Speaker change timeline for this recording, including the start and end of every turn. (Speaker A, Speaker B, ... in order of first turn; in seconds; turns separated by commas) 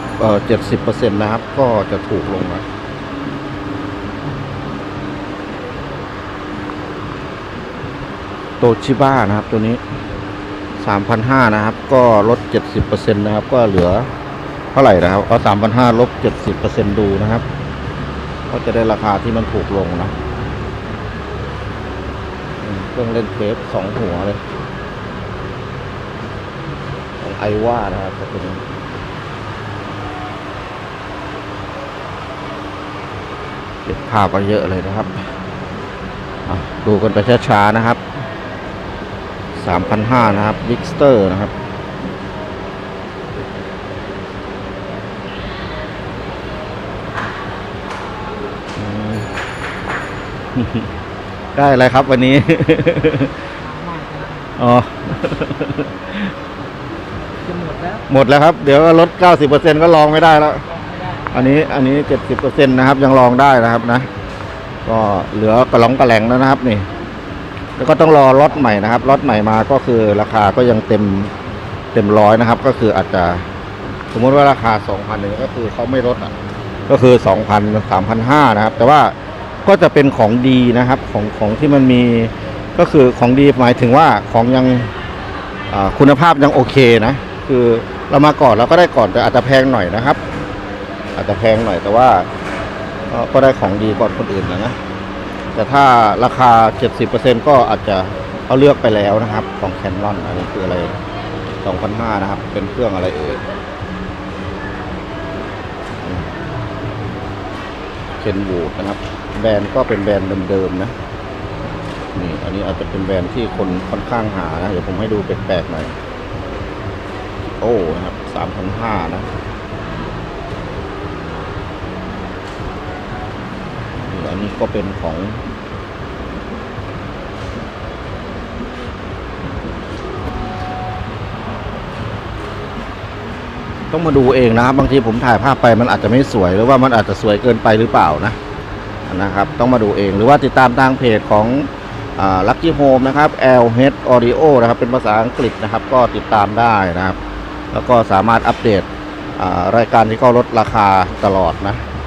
Speaker A: 0.2-2.6, Speaker A: 8.6-9.8, Speaker A: 10.8-14.1, Speaker A: 14.7-17.4, Speaker A: 18.5-20.1, Speaker A: 22.6-24.4, Speaker A: 27.2-28.6, Speaker A: 33.9-35.2, Speaker A: 36.5-38.0, Speaker A: 39.6-41.5, Speaker A: 48.8-49.3, Speaker A: 50.5-50.9, Speaker A: 51.5-53.4, Speaker B: 53.7-54.5, Speaker A: 54.6-56.3, Speaker B: 57.4-58.0, Speaker A: 58.1-60.6, Speaker B: 60.7-61.5, Speaker A: 61.3-64.1, Speaker A: 64.9-66.9, Speaker A: 67.8-71.3, Speaker A: 71.9-73.5, Speaker A: 74.1-76.3, Speaker A: 76.9-84.9, Speaker A: 85.7-90.2, Speaker A: 91.2-92.3, Speaker A: 93.1-94.8, Speaker A: 95.5-101.0, Speaker A: 101.6-103.4, Speaker A: 108.2-111.0, Speaker A: 112.2-115.9, Speaker A: 117.6-119.3, Speaker A: 124.1-125.4, Speaker A: 133.9-138.4, Speaker A: 139.1-147.2, Speaker A: 147.7-151.8